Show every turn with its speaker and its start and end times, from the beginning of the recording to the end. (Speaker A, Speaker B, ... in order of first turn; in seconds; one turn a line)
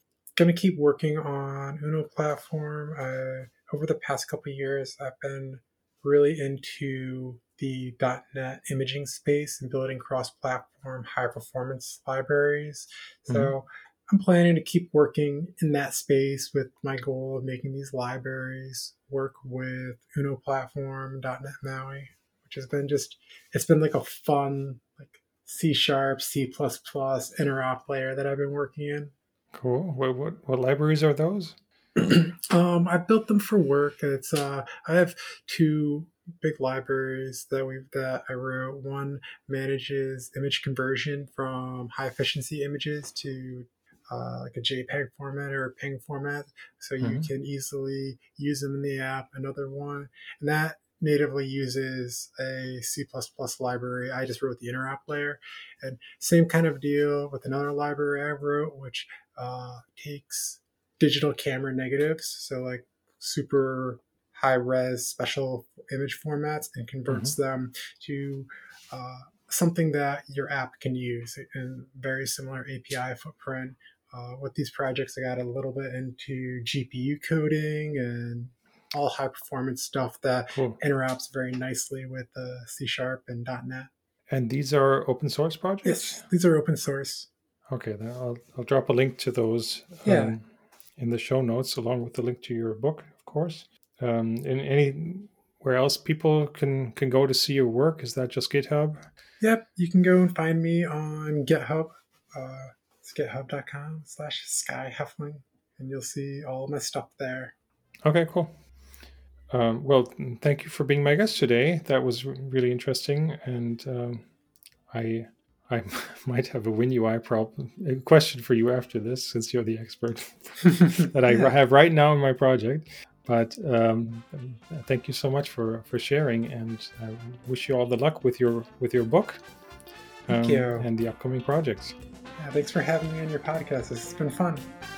Speaker A: 0.4-29.1
Speaker B: 29.5-31.6
Speaker A: 31.9-83.9
Speaker B: 47.0-47.3
Speaker B: 84.3-86.2
Speaker A: 85.8-87.3
Speaker B: 87.7-90.4
Speaker A: 90.0-90.3
Speaker B: 91.0-99.1
Speaker A: 99.4-107.5
Speaker B: 108.0-108.5
Speaker B: 109.5-114.2
Speaker B: 114.9-129.4
Speaker A: 120.7-121.5
Speaker A: 130.3-130.9
Speaker B: 130.3-131.9
Speaker A: 132.4-134.7